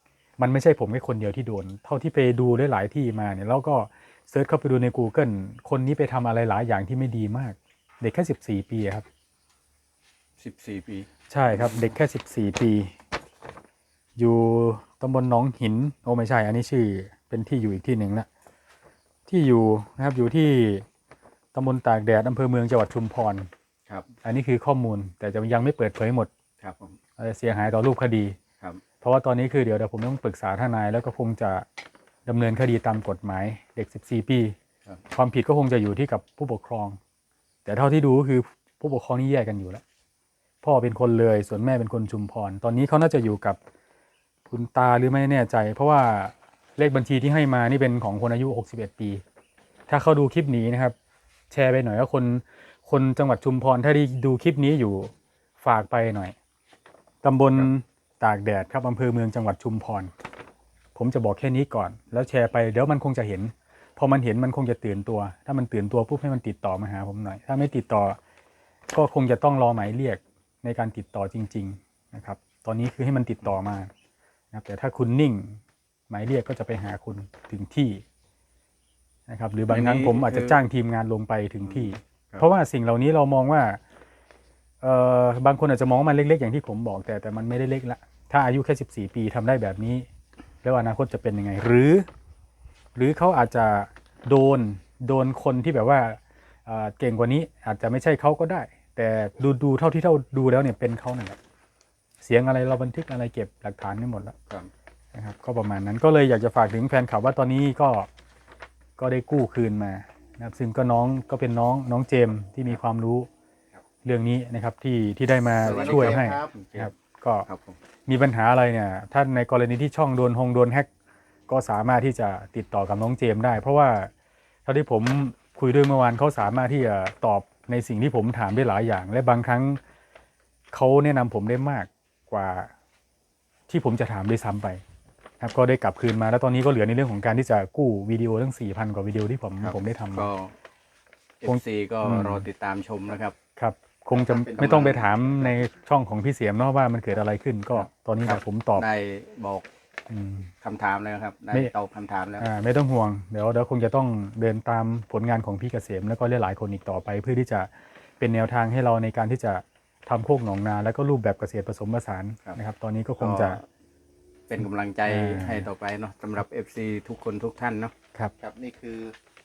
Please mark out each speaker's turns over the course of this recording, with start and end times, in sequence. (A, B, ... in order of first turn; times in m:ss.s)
0:00.4-0:09.0 A
0:10.4-0:11.9 B
0:11.3-0:12.9 A
0:14.2-0:18.3 A
0:19.3-0:20.8 A
0:21.5-0:23.5 A
0:24.2-0:26.3 A
0:26.6-0:27.0 B
0:27.2-0:28.4 A
0:29.0-0:31.6 A
0:32.2-0:34.6 A
0:35.1-0:37.0 A
0:37.6-0:39.8 A
0:40.6-0:43.6 A
0:44.5-0:49.2 A
0:49.9-0:50.9 A
0:51.5-0:56.3 A
0:57.2-1:00.1 A
1:01.0-1:08.2 A
1:08.9-1:13.9 A
1:14.5-1:18.0 A
1:19.3-1:23.8 A
1:19.7-1:20.6 B
1:21.6-1:22.4 B
1:24.8-1:30.0 A
1:30.6-1:32.0 A
1:33.0-1:41.4 A
1:42.2-1:44.3 A
1:45.1-1:48.1 A
1:49.0-1:53.3 A
1:54.0-1:57.5 A
1:55.6-1:56.5 C
1:55.6-1:56.9 B
1:57.4-1:57.8 B
1:58.1-2:00.9 A
2:01.5-2:04.1 A
2:04.6-2:09.8 A
2:10.7-2:12.7 A
2:13.7-2:14.8 A
2:15.4-2:20.3 A
2:19.6-2:20.5 B
2:21.4-2:23.4 B
2:21.4-2:22.4 A
2:23.6-2:28.8 A
2:24.1-2:25.0 C
2:24.4-2:25.1 B
2:27.8-2:29.7 B
2:30.1-2:30.5 A
2:30.6-2:32.4 B
2:32.4-2:43.6 A
2:43.2-2:43.6 B
2:44.5-2:47.9 B
2:45.0-2:45.7 A
2:48.4-2:49.1 C